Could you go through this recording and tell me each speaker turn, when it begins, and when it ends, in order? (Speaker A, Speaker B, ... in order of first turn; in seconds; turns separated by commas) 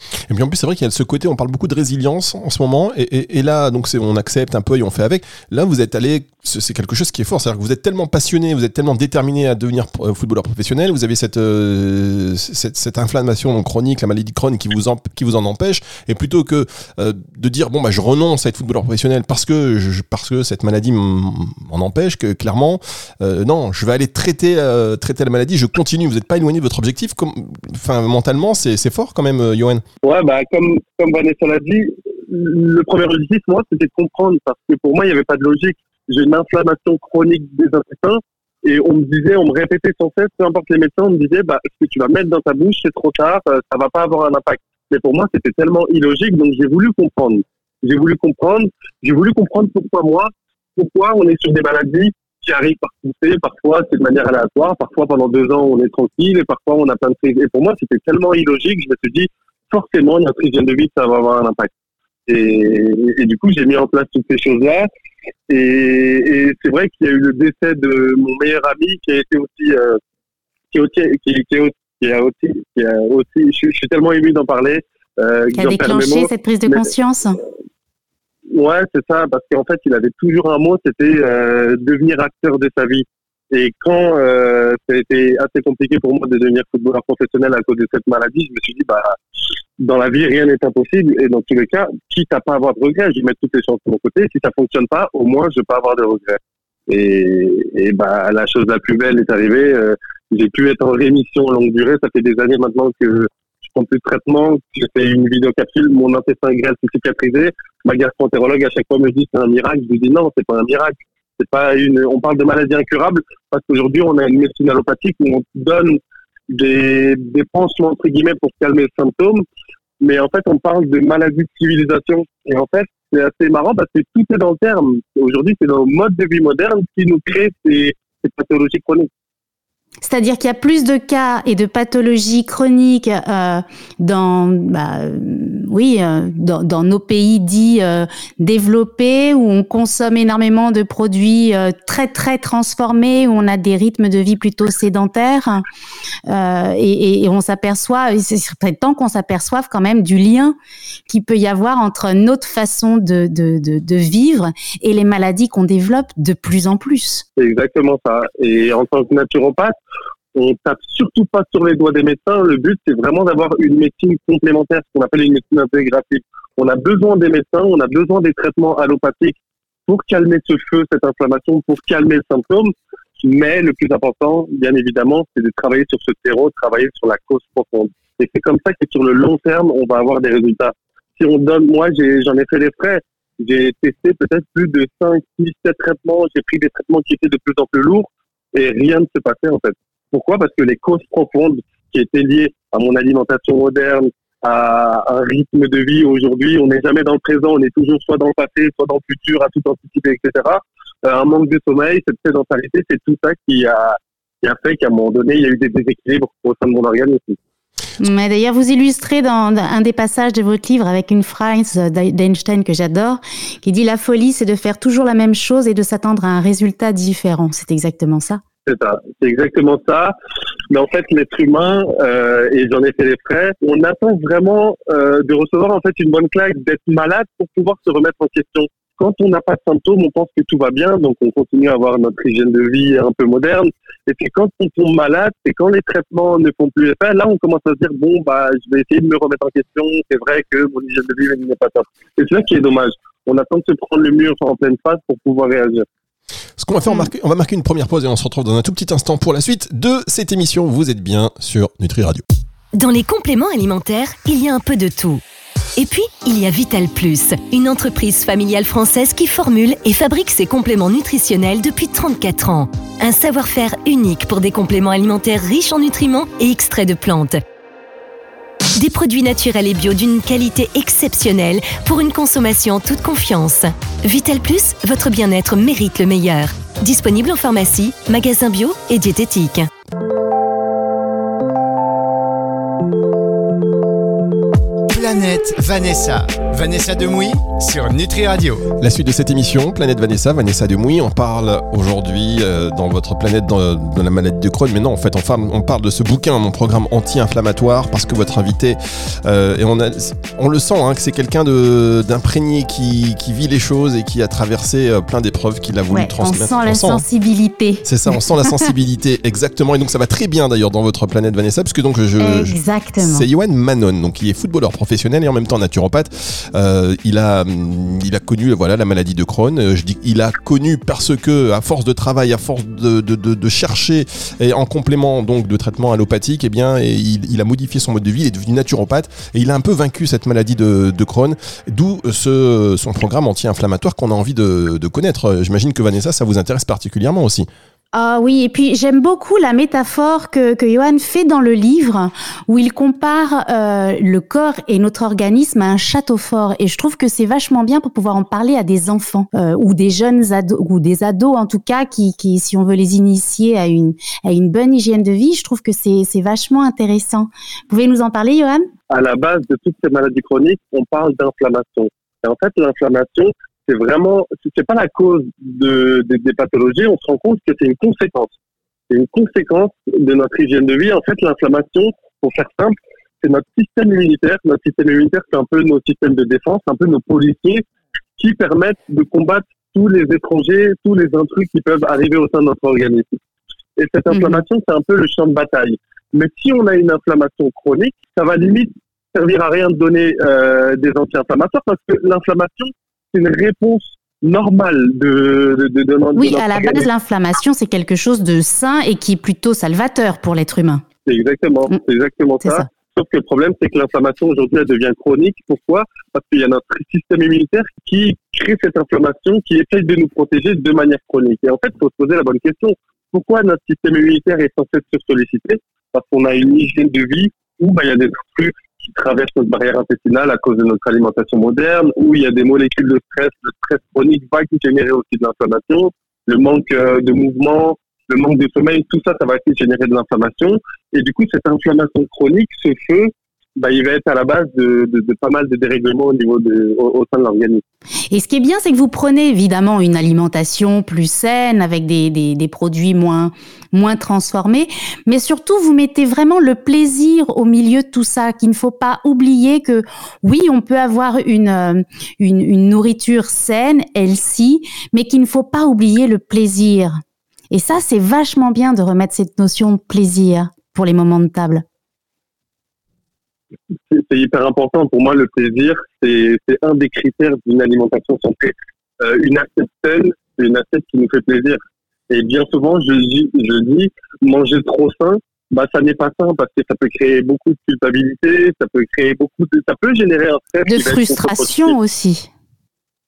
Speaker A: 0.3-29.8, Speaker B: 30.0-61.7, Speaker B: 62.3-64.9, Speaker B: 65.5-70.0, Speaker B: 70.7-76.9, Speaker C: 75.6-77.4, Speaker B: 78.5-89.2, Speaker B: 89.8-119.4, Speaker B: 120.0-129.1, Speaker C: 130.0-145.6, Speaker C: 146.3-150.6, Speaker C: 151.1-157.2, Speaker B: 157.4-159.8, Speaker B: 160.3-169.3, Speaker B: 169.9-207.4, Speaker C: 208.0-218.4, Speaker B: 218.7-220.1, Speaker B: 220.7-245.8, Speaker A: 246.6-252.2, Speaker D: 252.7-255.2, Speaker D: 255.8-267.4, Speaker D: 268.7-279.7, Speaker E: 284.9-288.7, Speaker A: 288.8-307.0, Speaker C: 305.9-308.7, Speaker A: 307.8-337.5, Speaker C: 312.2-313.2, Speaker C: 337.9-358.7, Speaker B: 358.9-368.3, Speaker B: 368.9-377.6, Speaker B: 378.2-383.2, Speaker B: 383.8-396.9, Speaker C: 384.1-384.4, Speaker C: 396.2-400.8, Speaker B: 401.1-437.6, Speaker C: 438.1-457.0, Speaker C: 457.5-461.6, Speaker B: 463.9-481.7, Speaker C: 480.7-482.3